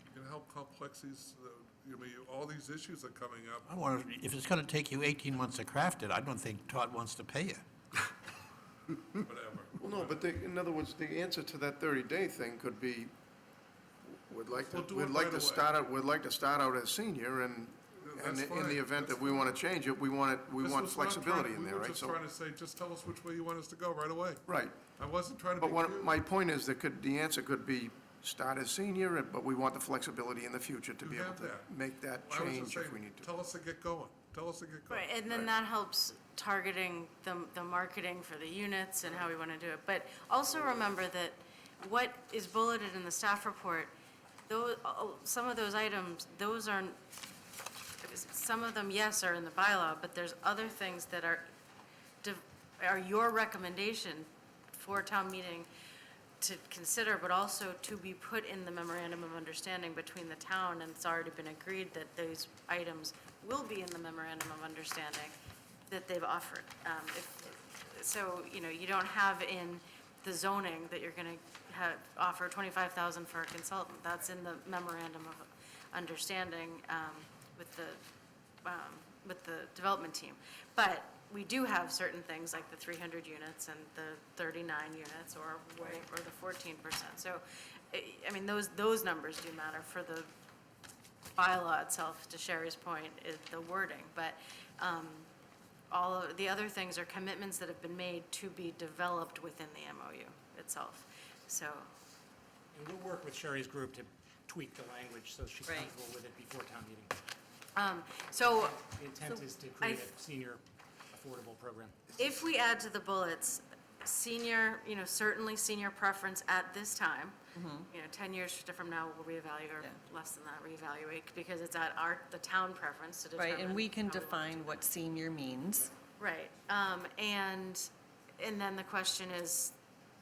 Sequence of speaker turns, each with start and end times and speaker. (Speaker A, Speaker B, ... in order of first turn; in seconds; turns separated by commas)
Speaker A: 0.1-3.7, Speaker B: 3.7-7.6, Speaker A: 9.2-10.2, Speaker C: 9.8-13.1, Speaker C: 14.0-22.2, Speaker A: 14.6-15.8, Speaker A: 18.0-19.6, Speaker A: 20.6-24.4, Speaker C: 24.5-24.9, Speaker A: 25.0-26.2, Speaker C: 25.6-33.3, Speaker A: 31.0-31.7, Speaker A: 32.2-35.4, Speaker D: 34.9-43.9, Speaker D: 44.5-47.0, Speaker D: 48.0-51.5, Speaker D: 52.2-55.7, Speaker D: 56.4-65.3, Speaker D: 65.9-78.0, Speaker D: 78.6-90.3, Speaker D: 91.3-95.3, Speaker D: 95.9-101.9, Speaker E: 102.7-107.1, Speaker F: 105.7-105.9, Speaker D: 107.7-108.8, Speaker E: 108.5-112.0, Speaker D: 109.8-110.1, Speaker D: 112.1-117.4, Speaker F: 117.5-117.9, Speaker D: 117.9-124.8, Speaker F: 123.3-125.9, Speaker D: 126.2-129.7